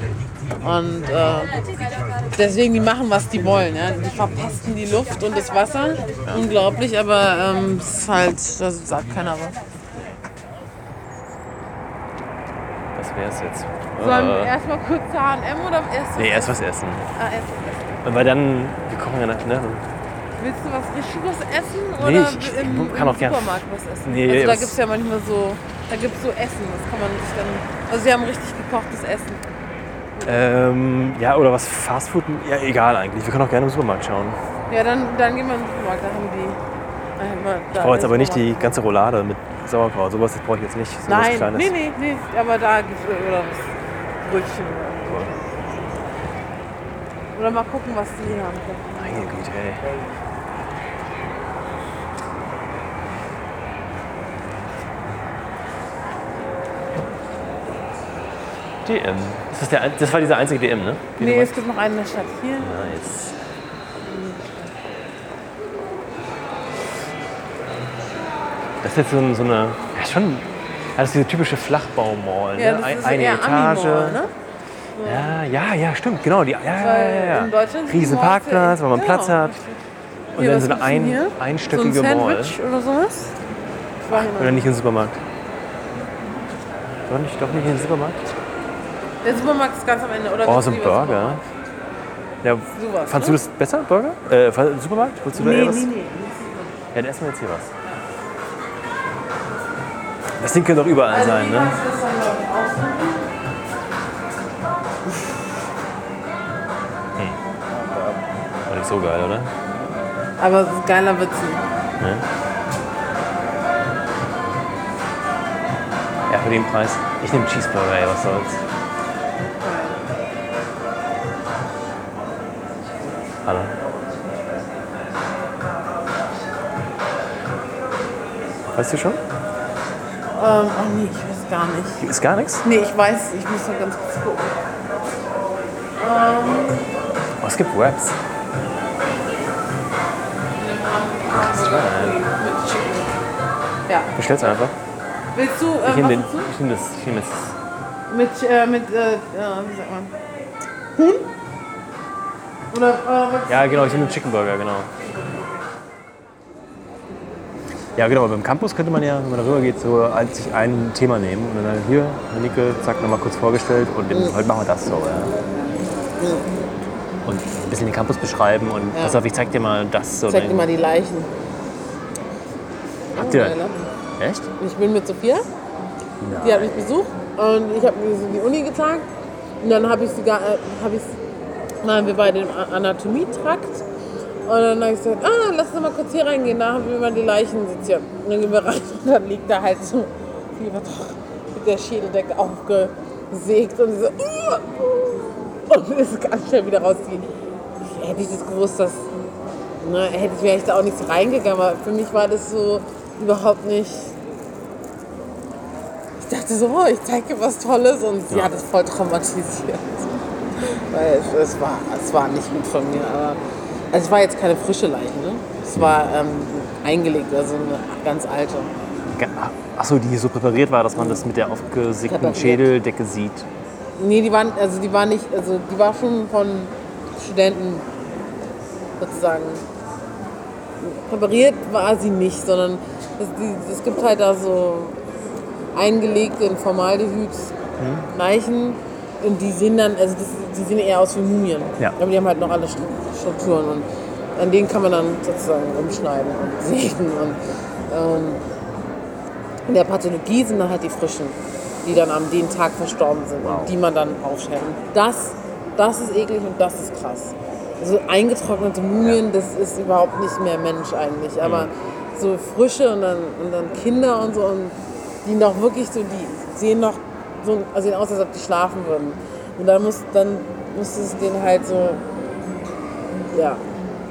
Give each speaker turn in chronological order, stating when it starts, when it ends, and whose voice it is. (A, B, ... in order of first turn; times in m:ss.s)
0:00.6-0:01.6 A
0:02.4-0:09.6 A
0:13.0-0:14.5 B
0:14.0-0:16.6 A
0:16.2-0:17.1 B
0:17.1-0:17.9 A
0:18.0-0:19.8 B
0:20.4-0:29.4 A
0:22.0-0:24.8 B
0:30.2-0:30.4 A
0:30.2-0:34.4 B
0:34.7-0:36.6 A
0:37.2-0:38.8 A
0:37.8-0:41.8 B
0:41.1-0:43.7 A
0:44.2-0:45.4 A
0:47.4-0:49.0 A
0:49.0-0:49.8 B
0:58.8-1:01.6 B
1:01.2-1:02.8 A
1:02.6-1:03.3 B
1:04.1-1:04.7 A
1:08.8-1:14.2 B
1:12.6-1:14.3 A
1:15.0-1:15.4 A
1:15.0-1:19.6 B
1:16.8-1:19.8 A
1:20.3-1:22.6 B
1:20.4-1:23.3 A
1:24.0-1:24.7 A
1:24.1-1:25.2 B
1:27.1-1:28.3 B
1:29.2-1:31.5 A
1:30.5-1:31.4 B
1:32.4-1:35.9 B
1:32.7-1:33.4 A
1:35.4-1:36.7 A
1:36.9-1:37.7 B
1:40.4-1:41.8 B
1:41.1-1:43.3 A
1:48.7-1:49.5 B
1:50.4-1:51.6 A
1:52.0-1:52.3 B
1:56.3-1:58.6 B
1:59.6-2:00.0 A
2:03.4-2:03.7 B
2:08.7-2:09.2 B
2:10.3-2:12.1 A
2:12.0-2:12.6 B
2:12.6-2:14.6 A
2:16.0-2:16.8 A
2:17.4-2:18.2 B
2:20.6-2:23.2 A
2:21.3-2:22.2 B
2:23.9-2:24.1 A
2:24.2-2:24.8 B
2:25.3-2:26.5 A
2:25.8-2:27.6 B
2:28.1-2:30.1 A
2:31.0-2:31.3 A
2:32.7-2:34.2 A
2:33.5-2:34.9 B
2:38.0-2:45.4 B
2:44.1-2:44.4 A
2:46.2-2:46.5 A
2:47.2-2:50.7 B
2:48.9-2:49.2 A
2:50.3-2:51.3 A
2:53.1-2:53.9 A
2:53.2-2:53.6 B
2:54.2-2:54.5 B
2:54.6-2:55.5 A
2:56.2-2:56.8 B
2:56.4-2:59.1 A
2:59.6-3:01.2 A
3:01.8-3:03.8 A
3:04.5-3:17.3 A
3:17.8-3:19.1 A
3:19.8-3:24.2 A
3:26.2-3:33.4 A
3:33.9-3:38.7 A
3:39.1-3:43.5 B
3:41.0-3:41.2 A
3:42.1-3:42.7 A
3:44.0-3:47.9 A
3:49.0-3:49.6 A
3:50.8-3:55.0 A
3:55.7-3:57.6 A
3:57.8-3:58.1 B
3:58.1-4:08.4 A
4:09.7-4:32.0 A
4:13.4-4:13.7 B
4:21.4-4:21.7 B
4:33.3-4:33.6 A